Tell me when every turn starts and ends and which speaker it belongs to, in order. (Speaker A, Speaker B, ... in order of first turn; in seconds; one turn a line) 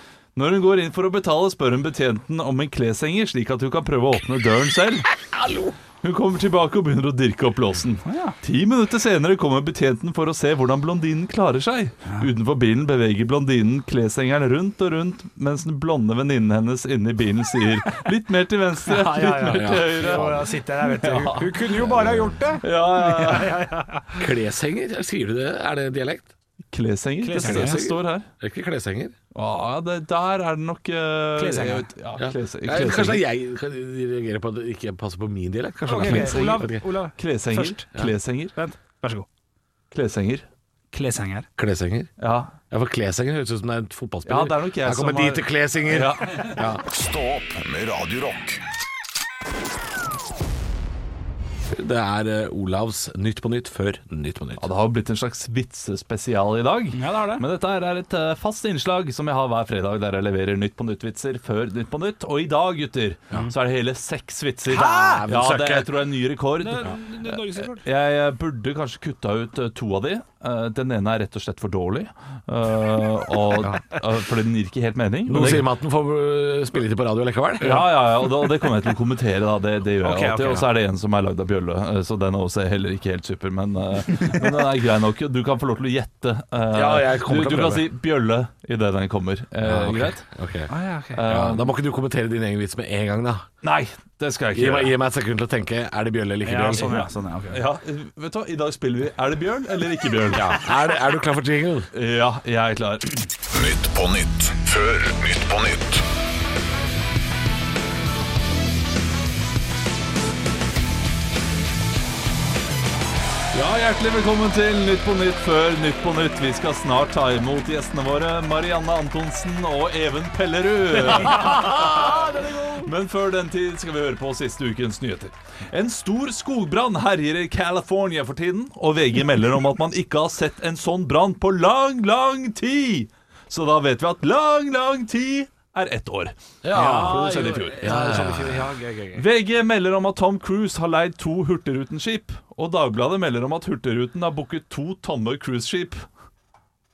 Speaker A: 0.3-5.1
Speaker B: 5.3-5.8
Speaker A: 6.0-21.7
Speaker C: 8.1-8.3
Speaker C: 18.9-24.2
Speaker B: 19.5-20.5
Speaker B: 21.8-22.3
Speaker A: 22.6-23.6
Speaker B: 24.2-26.3
Speaker A: 26.7-28.3
Speaker C: 27.2-27.8
Speaker B: 27.4-29.1
Speaker A: 29.3-33.2
Speaker C: 31.4-31.9
Speaker B: 32.2-36.8
Speaker C: 35.9-38.0
Speaker A: 35.9-38.5
Speaker C: 38.5-39.3
Speaker A: 39.9-40.4
Speaker C: 40.9-41.5
Speaker B: 41.6-42.1
Speaker A: 42.2-42.5
Speaker B: 42.7-46.8
Speaker A: 44.2-46.5
Speaker D: 46.8-48.6
Speaker B: 51.7-54.7
Speaker A: 54.6-75.7
Speaker C: 56.9-57.4
Speaker C: 64.7-65.2
Speaker B: 64.7-65.9
Speaker C: 66.6-67.8
Speaker B: 75.2-78.0
Speaker A: 77.6-90.2
Speaker C: 80.0-80.7
Speaker B: 86.7-87.8
Speaker B: 89.6-93.5
Speaker C: 90.7-91.2
Speaker A: 91.2-91.7
Speaker A: 93.6-94.9
Speaker B: 94.5-97.0
Speaker C: 96.4-97.6
Speaker A: 96.7-100.5
Speaker B: 100.3-101.9
Speaker A: 101.9-103.3
Speaker D: 103.5-106.0
Speaker A: 113.5-138.2
Speaker B: 121.3-122.2
Speaker C: 121.4-122.7
Speaker B: 136.6-138.8
Speaker C: 136.7-139.2
Speaker A: 139.2-146.0